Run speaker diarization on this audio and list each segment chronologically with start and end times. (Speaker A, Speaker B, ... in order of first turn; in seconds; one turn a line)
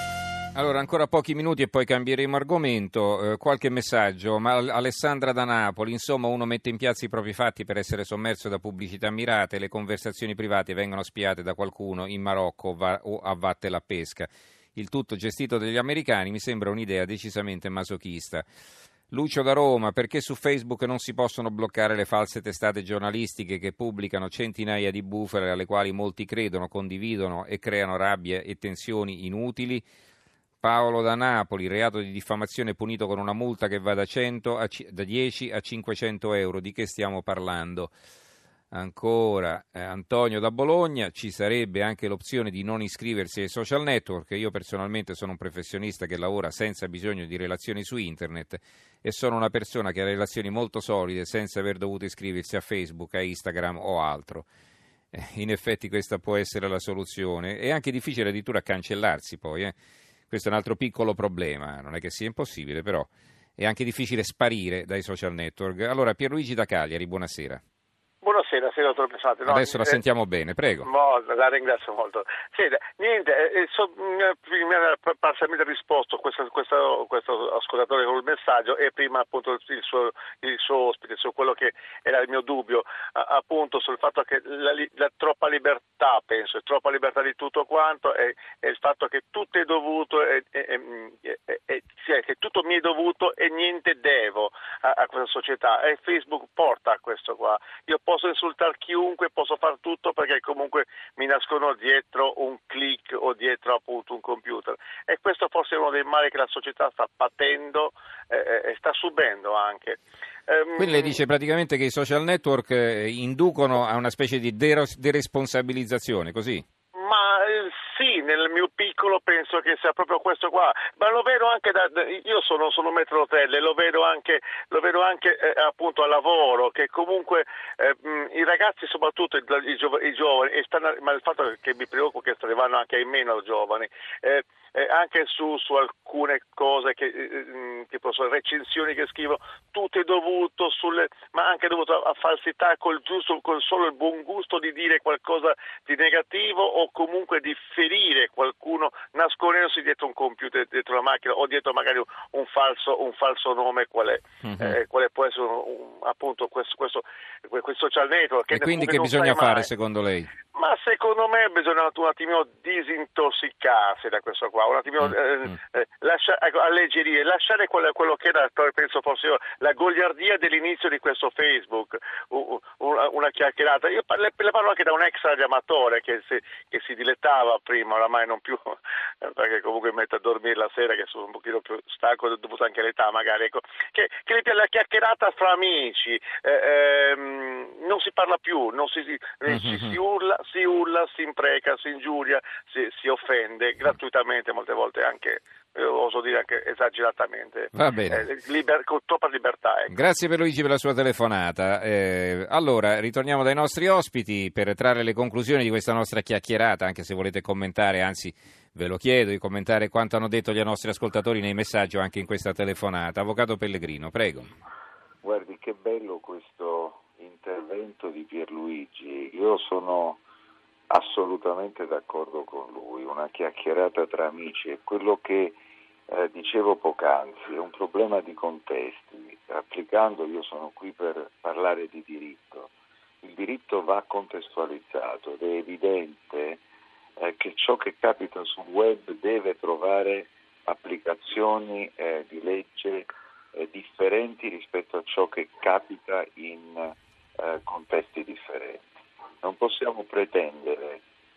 Speaker A: 0.6-18.5
Speaker A: 19.1-29.9
Speaker A: 30.6-37.9
Speaker A: 38.7-54.5
Speaker A: 55.1-59.7
Speaker A: 60.3-67.6
Speaker B: 68.2-70.0
Speaker A: 69.5-70.9
Speaker B: 70.8-111.2
Speaker A: 110.8-116.6
Speaker B: 117.0-159.7
Speaker A: 154.4-154.8
Speaker A: 158.5-160.3
Speaker B: 160.5-199.9
Speaker A: 189.5-190.0
Speaker A: 197.7-198.3
Speaker A: 199.9-214.5
Speaker C: 215.2-220.2
Speaker C: 220.9-225.6
Speaker C: 226.1-232.7
Speaker C: 233.2-236.6
Speaker C: 237.2-248.8
Speaker C: 249.4-251.0